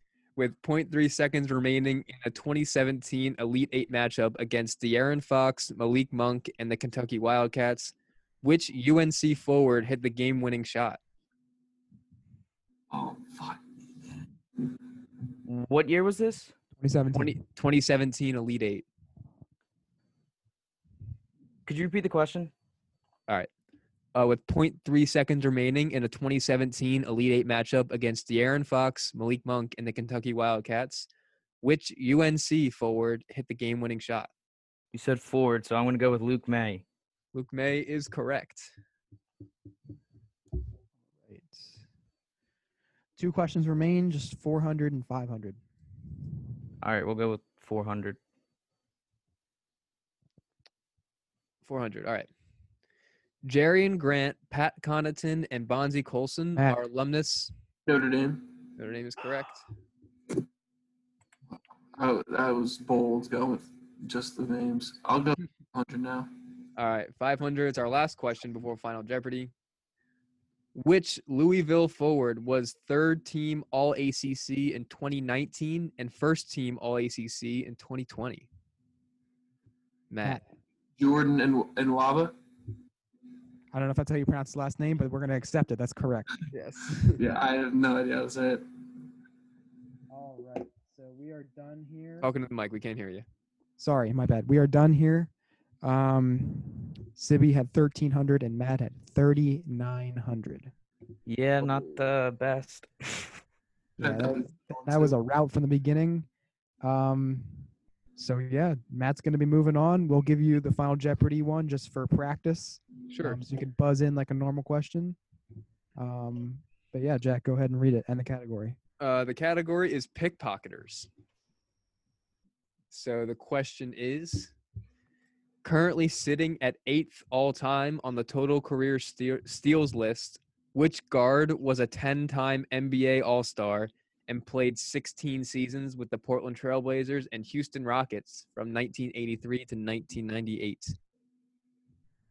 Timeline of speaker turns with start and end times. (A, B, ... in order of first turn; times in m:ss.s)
0:00.4-0:11.0 A
0:12.9-0:13.6 B
0:15.5-0:16.5 C
0:16.8-0:17.4 D
0:17.1-0:18.9 A
0:21.7-0:22.5 C
0:24.1-0:31.1 A
0:31.6-0:34.3 A
0:34.9-0:36.8 C
0:37.3-0:38.7 A
0:41.2-0:41.8 D
0:43.2-0:45.6 D
0:46.8-0:48.2 C
0:51.6-0:52.3 A
0:53.4-0:57.5 A
0:57.9-0:58.6 B
0:58.8-0:59.6 A
1:02.0-1:06.3 B
1:06.8-1:09.5 A
1:10.8-1:18.5 A
1:20.1-1:20.4 A
1:21.0-1:22.3 B
1:23.7-1:26.4 D
1:26.5-1:27.2 A
1:27.2-1:28.6 B
1:30.1-1:32.3 D
1:32.2-1:33.2 A
1:33.8-1:35.3 D
1:35.8-1:40.7 D
1:41.3-1:43.4 C
1:44.0-1:45.2 B
1:44.0-1:46.3 D
1:46.8-1:55.2 D
1:53.1-1:53.4 A
1:56.0-1:58.8 D
1:59.0-2:01.1 A
2:02.9-2:04.5 A
2:05.6-2:21.0 A